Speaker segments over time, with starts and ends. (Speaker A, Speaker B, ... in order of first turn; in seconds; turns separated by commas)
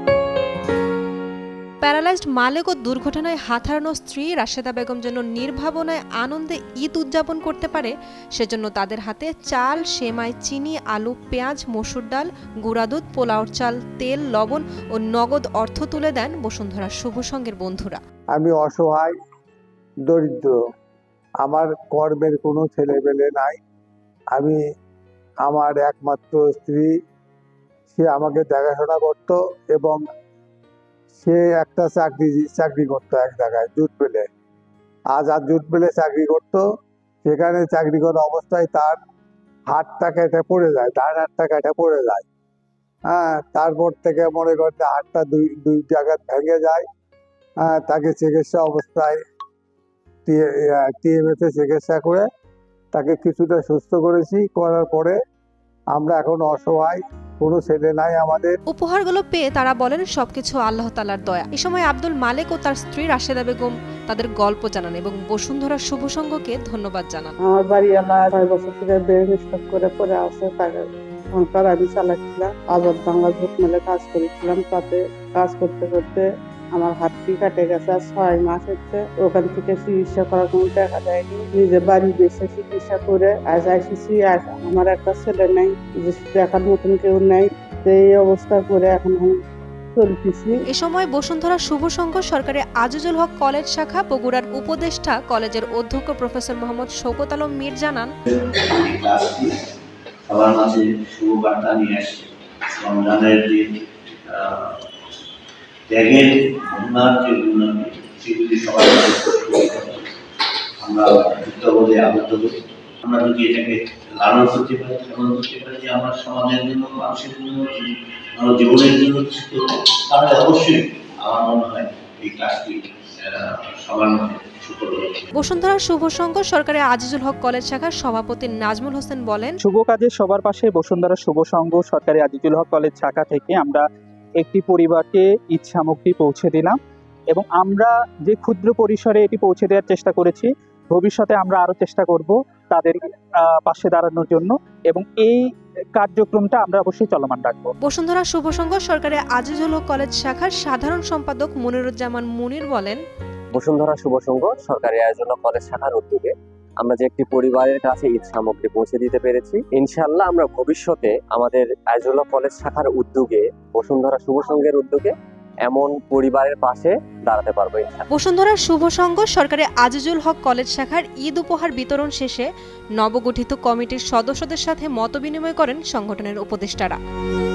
Speaker A: 1.8-18.0, Speaker B: 18.3-19.1, Speaker B: 20.1-20.5, Speaker B: 21.4-23.6, Speaker B: 25.4-26.9, Speaker B: 27.9-30.0, Speaker B: 31.2-34.2, Speaker B: 35.1-36.6, Speaker B: 37.2-39.0, Speaker B: 39.7-42.2, Speaker B: 43.1-46.8, Speaker B: 47.6-49.2, Speaker B: 50.3-52.2, Speaker B: 52.9-55.2, Speaker B: 55.9-58.6, Speaker A: 58.7-67.3, Speaker C: 67.4-89.3, Speaker C: 90.0-90.6, Speaker A: 90.7-98.1, Speaker D: 98.7-99.5, Speaker D: 100.3-103.7, Speaker D: 104.3-104.8, Speaker D: 105.9-110.0, Speaker D: 110.8-125.3, Speaker A: 125.3-129.5, Speaker E: 129.6-133.8, Speaker E: 134.4-136.8, Speaker E: 137.3-147.7, Speaker A: 147.8-153.0, Speaker F: 153.5-165.1, Speaker F: 165.6-168.1, Speaker A: 168.1-172.5, Speaker A: 173.0-177.0